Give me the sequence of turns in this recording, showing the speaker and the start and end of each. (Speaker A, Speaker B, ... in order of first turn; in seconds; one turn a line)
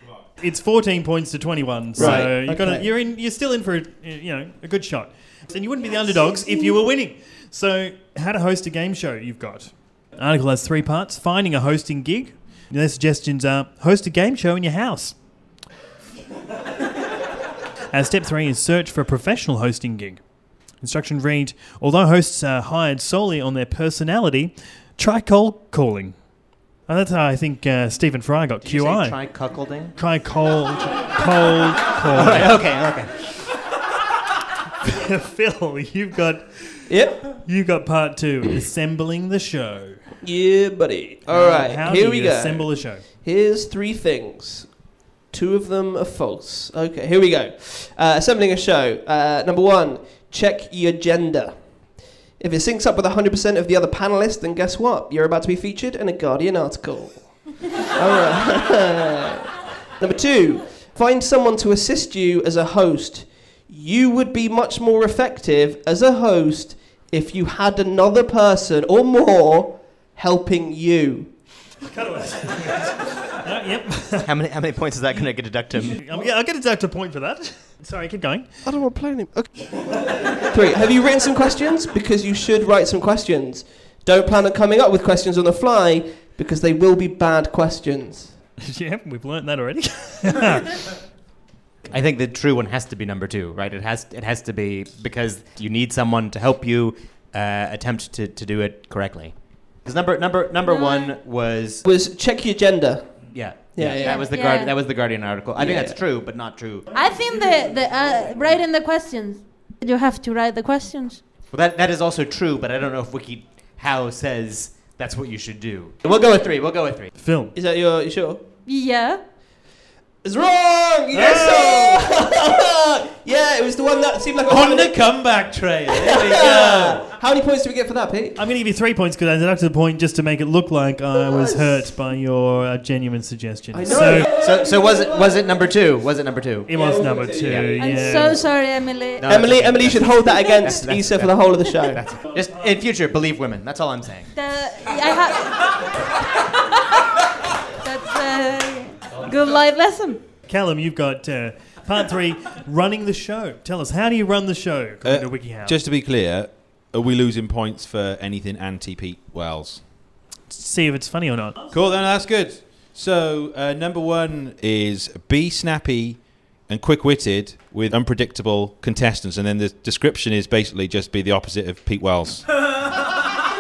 Speaker A: 0.4-15.2
Speaker B: 2.0-2.9
Speaker C: 2.0-2.3
Speaker A: 17.9-20.2
Speaker A: 20.8-26.3
Speaker A: 26.9-29.2
Speaker C: 28.6-29.9
Speaker A: 30.0-32.6
Speaker C: 32.1-33.1
Speaker A: 34.8-40.0
Speaker B: 36.9-37.4
Speaker B: 40.2-44.8
Speaker A: 41.3-43.0
Speaker B: 45.3-51.5
Speaker B: 52.4-71.3
Speaker A: 71.8-74.3
Speaker C: 74.2-76.0
Speaker A: 75.9-78.5
Speaker B: 78.7-79.8
Speaker B: 80.4-88.3
Speaker A: 88.6-91.0
Speaker C: 91.9-101.8
Speaker D: 100.6-101.2
Speaker B: 101.8-104.2
Speaker C: 103.3-106.9
Speaker D: 104.0-104.7
Speaker B: 105.6-106.0
Speaker D: 106.9-111.2
Speaker C: 111.5-117.1
Speaker B: 116.0-116.4
Speaker A: 117.2-117.5
Speaker B: 117.5-118.4
Speaker D: 118.7-119.2
Speaker B: 120.2-125.0
Speaker A: 121.1-122.1
Speaker E: 124.4-127.0
Speaker B: 125.9-128.4
Speaker A: 128.4-134.3
Speaker B: 133.7-134.7
Speaker C: 134.2-136.7
Speaker A: 136.7-138.4
Speaker B: 136.8-138.1
Speaker C: 137.4-137.8
Speaker D: 137.8-139.3
Speaker C: 139.2-144.3
Speaker B: 139.3-142.1
Speaker D: 140.2-140.8
Speaker D: 144.3-147.0
Speaker D: 147.8-150.2
Speaker A: 150.5-155.8
Speaker E: 155.0-159.8
Speaker A: 160.5-161.7
Speaker E: 161.7-172.5